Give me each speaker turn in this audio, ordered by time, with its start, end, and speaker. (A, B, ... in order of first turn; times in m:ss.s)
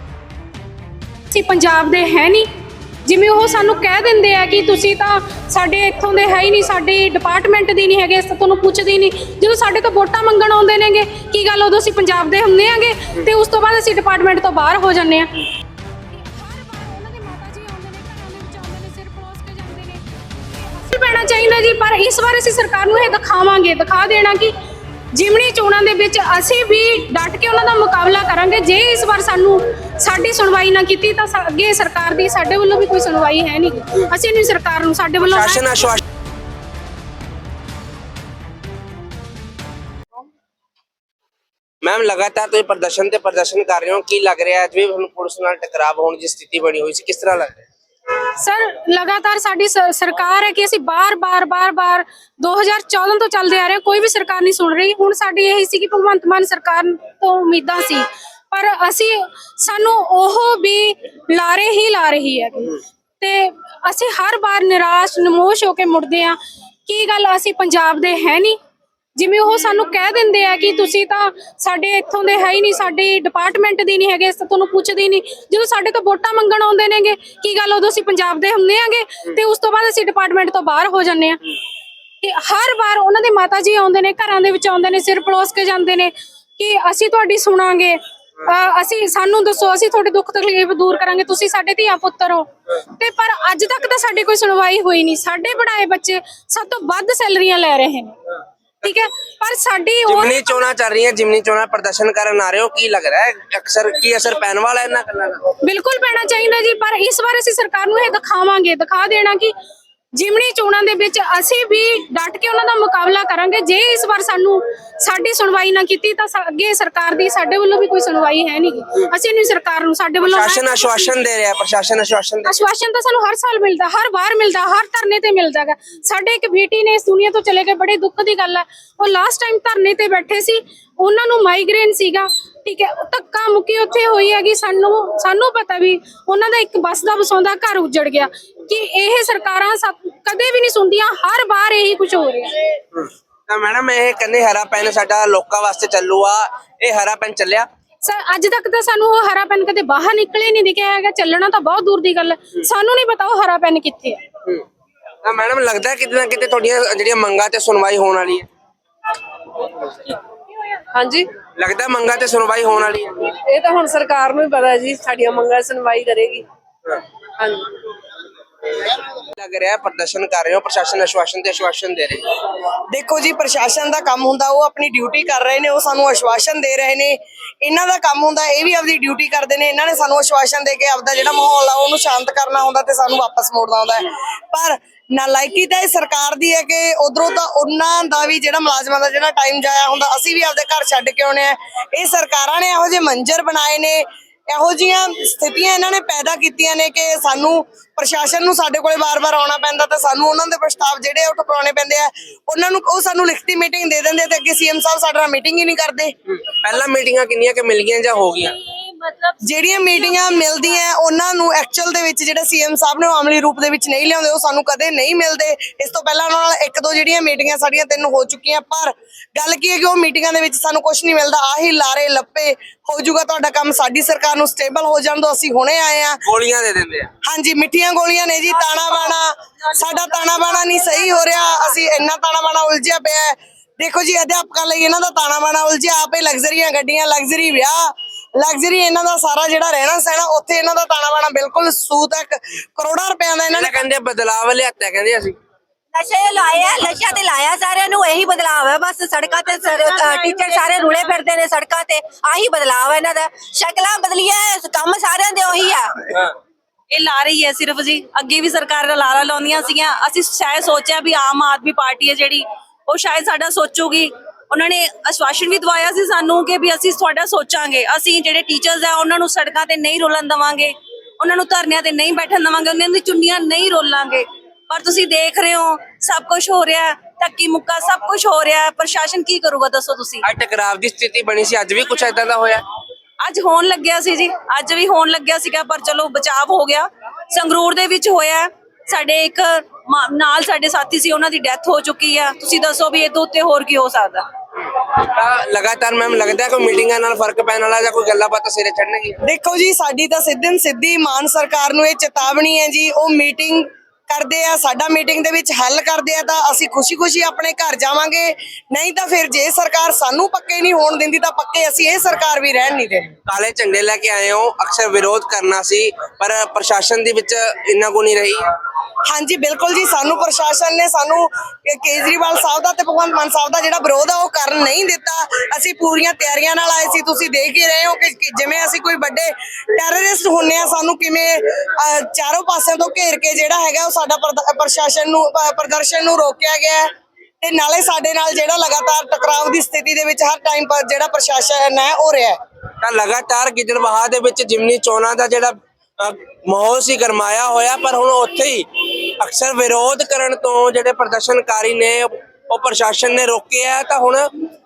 0:01.3-0:02.5 A
0:03.0-0:15.4 A
0:16.1-0:24.6 A
0:25.1-0:36.0 A
0:35.2-0:36.0 B
0:41.8-0:47.7 B
0:48.4-1:08.6 A
1:09.2-1:21.4 A
1:22.2-1:38.2 A
1:38.8-1:40.6 A
1:40.1-1:45.4 B
1:45.6-1:49.5 A
1:50.2-2:01.1 A
2:00.2-2:02.5 B
2:02.4-2:22.6 A
2:22.9-2:27.7 B
2:28.0-2:34.2 A
2:35.2-2:38.5 B
2:40.9-2:41.3 C
2:41.6-2:43.3 B
2:43.4-2:46.5 C
2:47.4-2:47.7 C
2:48.8-2:52.4 B
2:52.9-3:26.1 D
3:26.3-3:28.6 B
3:28.6-3:29.4 E
3:29.4-3:46.2 D
3:29.9-3:30.6 E
3:46.2-3:47.1 B
3:47.2-4:03.8 D
3:48.6-3:49.1 E
3:49.8-3:51.7 E
4:03.5-4:05.4 B
4:05.9-4:16.1 F
4:06.4-4:07.2 E
4:09.4-4:11.2 E
4:16.9-4:40.3 E
4:40.2-4:42.6 B
4:43.2-4:54.3 E
4:54.8-4:59.2 B
4:59.2-5:13.2 D
5:13.3-5:18.5 B
5:19.1-5:36.9 D
5:37.4-5:42.4 D
5:42.8-5:54.3 B